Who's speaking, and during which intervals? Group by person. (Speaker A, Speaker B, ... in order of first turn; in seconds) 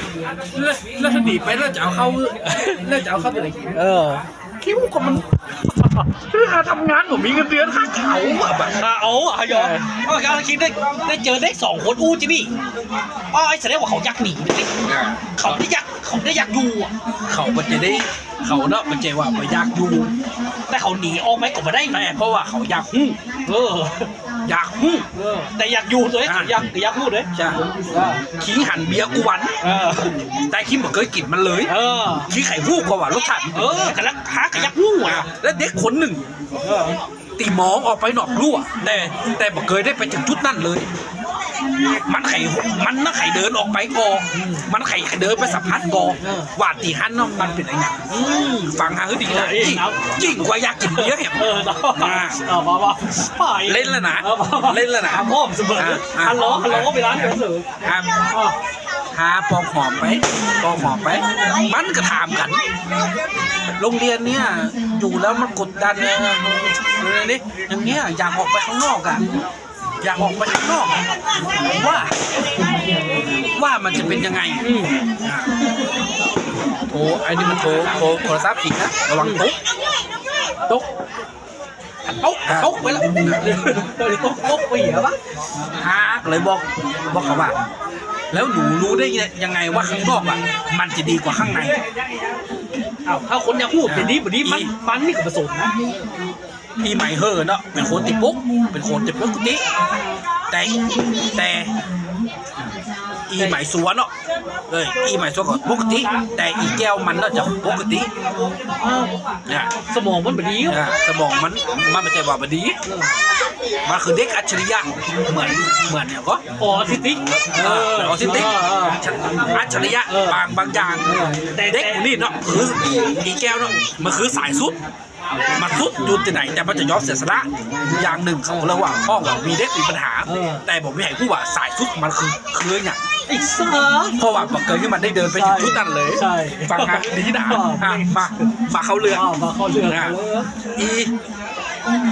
Speaker A: 0.5-3.8, 4.6-5.2, 6.3-8.8, 9.5-9.8, 14.8-15.6, 17.3-20.1, 21.9-23.2, 24.4-25.1, 26.2-26.6, 27.4-27.6, 28.4-29.5, 30.5-31.7, 32.3-34.0, 34.5-36.2, 37.4-40.9, 42.0-51.4, 52.0-52.4, 53.6-55.3, 55.8-58.1, 59.1-62.6, 63.8-69.2, 70.0-71.0, 71.5-72.1, 73.5-74.6, 75.2-75.6, 76.9-79.6, 82.5-83.5, 85.8-87.6, 88.3-91.8, 93.9-94.7, 96.8-99.6, 100.5-101.7, 103.3-104.1, 104.7-108.1, 109.5-109.7, 110.7-112.8, 113.9-116.4, 117.5-121.1, 121.7-124.8, 125.5-133.0, 134.2-139.3, 139.8-140.2, 140.8-141.1
Speaker B: 2.4-2.8, 3.7-4.2, 8.8-12.5, 13.3-14.7, 15.4-16.9, 20.7-22.0, 23.5-24.1, 25.1-27.3, 27.9-28.2, 29.6-30.1, 31.7-32.3, 33.5-35.3, 36.6-37.0, 44.3-44.7, 46.2-46.5, 48.1-48.8, 49.3-50.3, 50.9-57.7, 58.3-58.6, 74.6-74.9, 82.1-85.2, 93.1-95.7, 108.8-109.2, 109.9-110.8, 112.9-113.2, 116.6-120.4, 121.1-122.0, 128.0-128.7, 130.3-130.7, 133.3-134.2, 135.3-138.3, 139.1-140.5